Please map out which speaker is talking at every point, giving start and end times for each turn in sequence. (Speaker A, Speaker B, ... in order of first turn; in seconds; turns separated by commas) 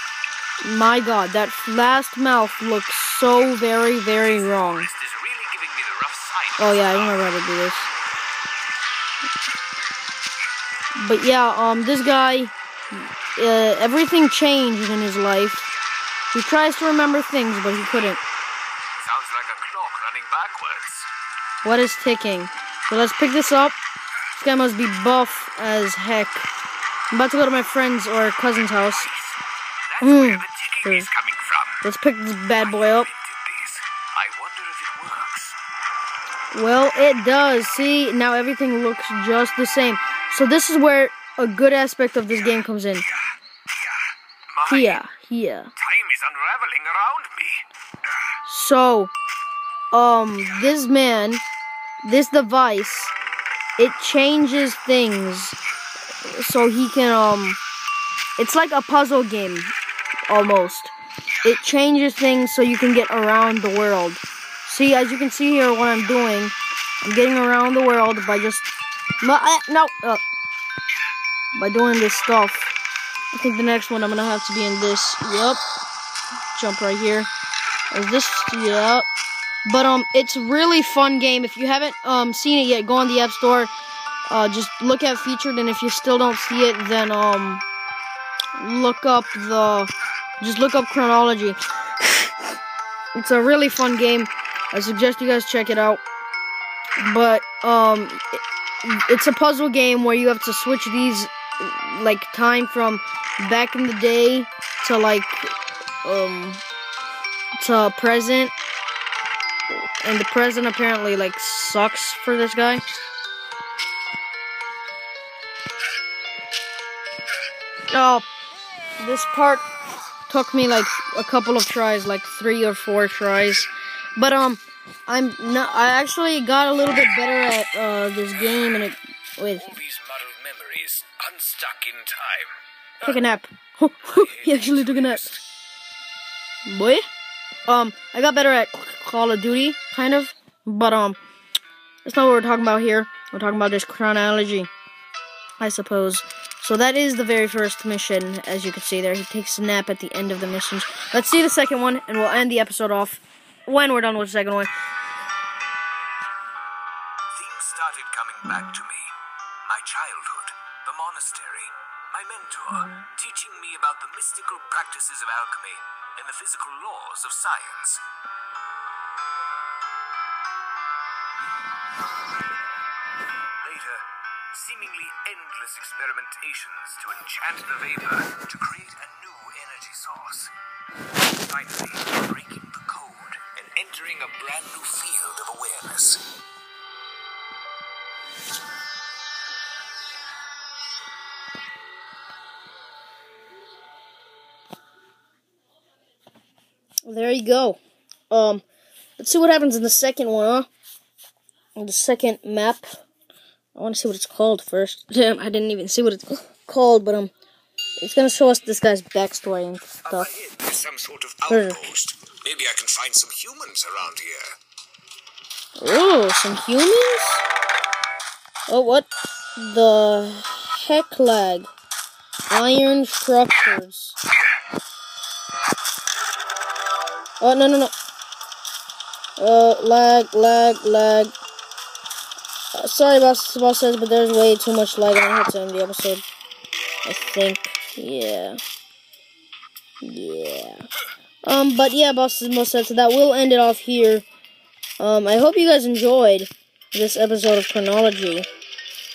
Speaker A: 0.6-4.9, Speaker B: 4.2-7.2, Speaker A: 6.6-7.9, Speaker A: 11.0-15.7, Speaker A: 16.3-18.2, Speaker B: 19.0-21.1, Speaker A: 21.6-23.8, Speaker A: 24.4-26.5, Speaker A: 27.1-29.1, Speaker B: 28.9-31.8, Speaker A: 30.0-31.1, Speaker A: 31.8-33.1, Speaker B: 32.6-35.6, Speaker A: 36.5-43.1, Speaker B: 44.5-45.0, Speaker A: 44.7-45.7, Speaker B: 45.8-47.6, Speaker A: 48.5-49.1, Speaker A: 49.9-51.4, Speaker A: 52.0-53.1, Speaker A: 53.8-55.6, Speaker A: 56.2-57.6, Speaker A: 58.4-59.7, Speaker A: 60.3-68.7, Speaker A: 69.2-70.2, Speaker A: 71.5-72.7, Speaker A: 73.3-75.6, Speaker A: 76.5-77.3, Speaker A: 77.9-79.1, Speaker A: 79.7-83.7, Speaker A: 84.3-87.6, Speaker A: 88.6-92.3, Speaker A: 93.2-96.0, Speaker A: 97.0-106.6, Speaker A: 107.5-108.5, Speaker A: 110.0-112.8, Speaker A: 117.9-118.3, Speaker A: 119.0-119.6, Speaker A: 120.3-129.7, Speaker B: 129.6-133.2, Speaker A: 133.0-135.4, Speaker B: 134.1-135.4, Speaker A: 136.7-137.1, Speaker A: 137.7-141.2, Speaker A: 142.0-144.7, Speaker A: 145.6-154.7, Speaker B: 157.3-159.1, Speaker B: 159.7-168.0, Speaker B: 173.6-180.5, Speaker B: 181.3-186.3, Speaker A: 197.1-198.6, Speaker A: 199.2-200.7, Speaker A: 201.8-202.9, Speaker A: 203.8-207.3, Speaker A: 208.0-210.3, Speaker B: 210.1-214.6, Speaker A: 211.5-211.9, Speaker A: 215.8-217.4, Speaker A: 218.7-221.7, Speaker A: 222.5-224.2, Speaker A: 227.4-227.9, Speaker A: 229.4-231.3, Speaker A: 232.7-236.2, Speaker A: 237.1-238.6, Speaker A: 240.0-240.9, Speaker A: 241.4-244.2, Speaker A: 245.0-248.5